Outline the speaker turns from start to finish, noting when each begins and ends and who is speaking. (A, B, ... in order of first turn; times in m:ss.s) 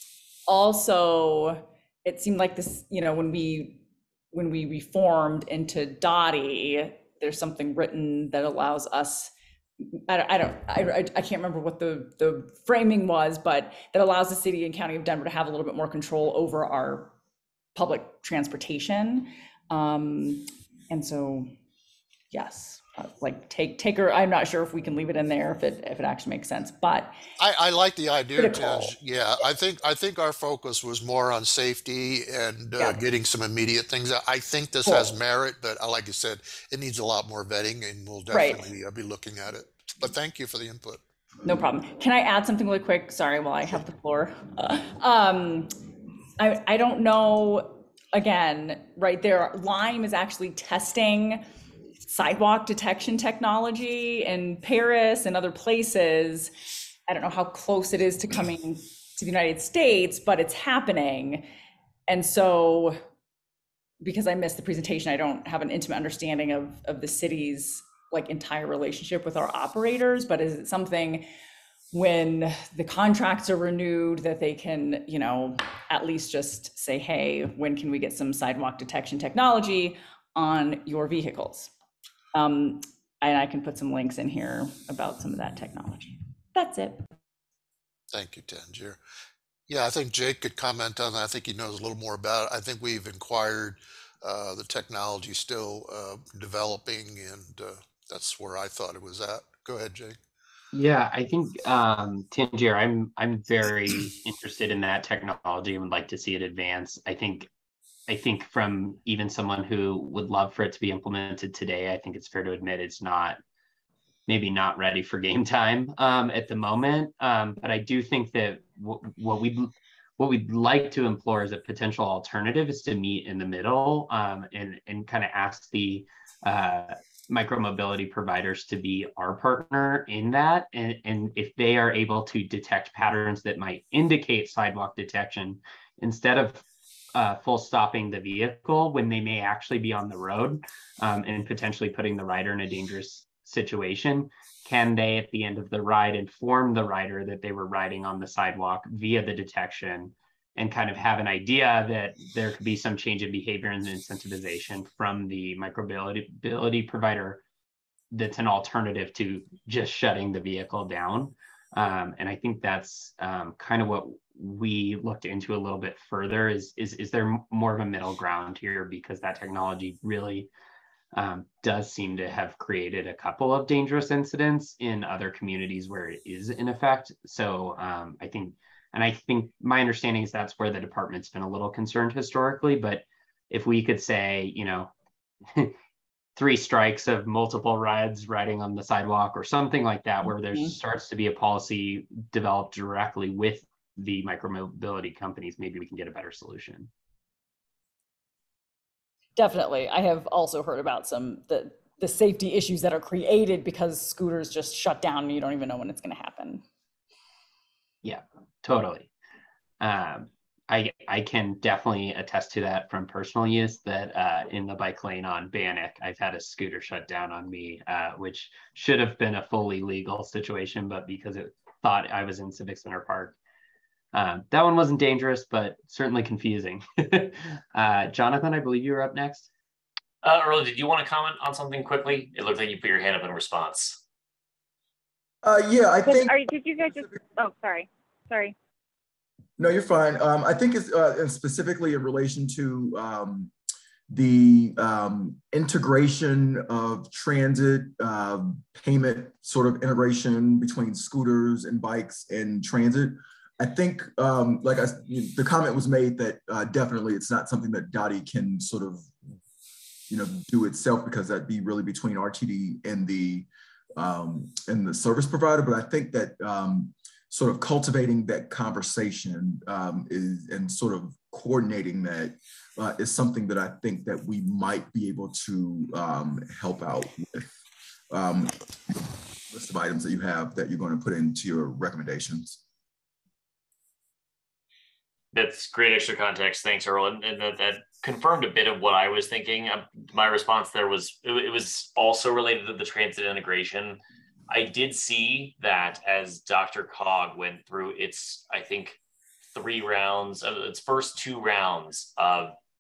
0:00.5-0:09.3 A
0:09.8-0:17.1 A
0:17.8-0:21.5 A
0:22.3-0:27.2 A
0:27.4-0:41.0 B
0:28.4-0:28.9 A
0:32.8-0:33.0 A
0:34.8-0:35.2 A
0:38.3-0:38.7 A
0:41.4-0:45.8 A
0:46.4-0:51.5 A
0:52.0-0:56.5 A
0:57.1-1:01.5 A
1:02.1-1:03.0 A
1:04.0-1:11.3 A
1:11.9-1:21.7 A
1:22.3-1:27.1 A
1:28.1-1:29.0 B
1:29.7-1:40.2 B
1:40.7-1:47.5 C
1:48.1-1:53.4 C
1:54.3-2:16.6 C
2:17.2-2:37.4 C
2:38.1-2:50.5 C
2:51.1-3:04.9 C
3:05.5-3:05.8 C
3:06.4-3:16.9 C
3:10.3-3:10.7 A
3:19.4-3:26.6 A
3:28.0-3:29.1 C
3:29.8-3:43.4 C
3:44.1-3:49.5 C
3:50.2-3:54.0 D
3:55.4-3:56.4 E
3:56.0-3:58.6 F
3:59.6-4:03.5 E
4:04.1-4:19.1 E
4:20.1-4:37.5 E
4:38.1-4:38.6 E
4:39.5-4:42.6 E
4:45.3-4:59.0 D
4:59.5-5:02.6 D